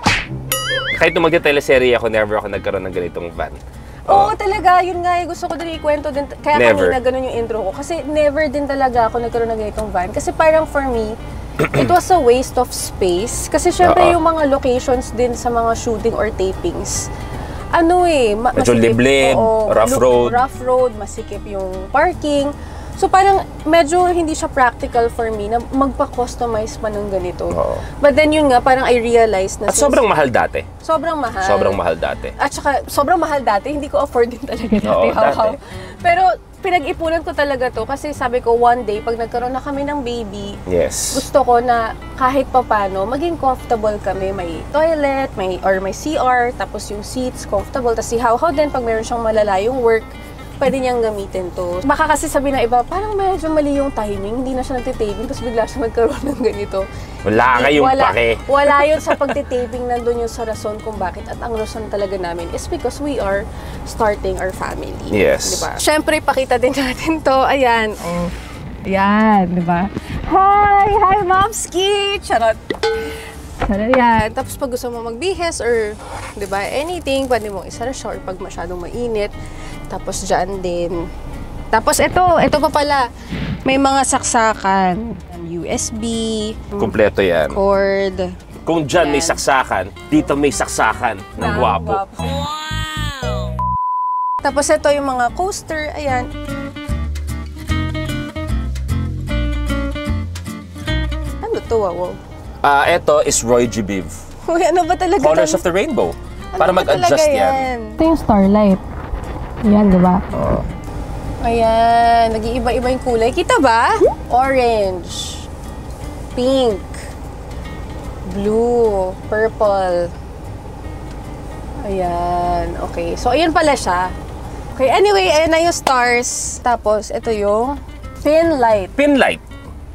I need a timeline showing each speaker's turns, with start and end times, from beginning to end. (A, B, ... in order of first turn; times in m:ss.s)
0:00.9-0:04.3 A
0:04.1-0:17.1 B
0:06.5-0:07.0 A
0:13.8-0:14.2 A
0:17.7-0:30.0 B
0:18.5-0:20.4 A
0:27.5-0:27.8 A
0:29.7-0:30.7 A
0:30.8-0:31.8 B
0:31.4-0:32.3 A
0:32.4-0:40.6 B
0:34.8-0:35.6 A
0:40.7-0:41.3 A
0:41.1-0:56.9 B
0:57.2-0:59.3 A
0:57.4-1:08.3 B
1:05.1-1:05.7 A
1:08.8-1:12.6 B
1:13.6-1:19.3 B
1:19.9-1:21.1 B
1:21.7-1:23.1 B
1:23.6-1:27.0 B
1:26.8-1:27.6 A
1:27.5-1:28.3 B
1:28.6-1:32.0 A
1:29.0-1:29.4 B
1:31.4-1:32.5 B
1:34.4-1:36.3 B
1:41.4-1:42.2 B
1:42.6-1:44.2 A
1:44.4-1:45.6 B
1:45.2-1:47.7 A
1:46.5-1:48.8 B
1:49.6-1:50.6 B
1:51.4-1:55.5 B
1:56.4-1:57.0 B
1:58.2-2:00.1 B
2:01.8-2:04.1 B
2:04.7-2:08.9 B
2:09.0-2:09.4 A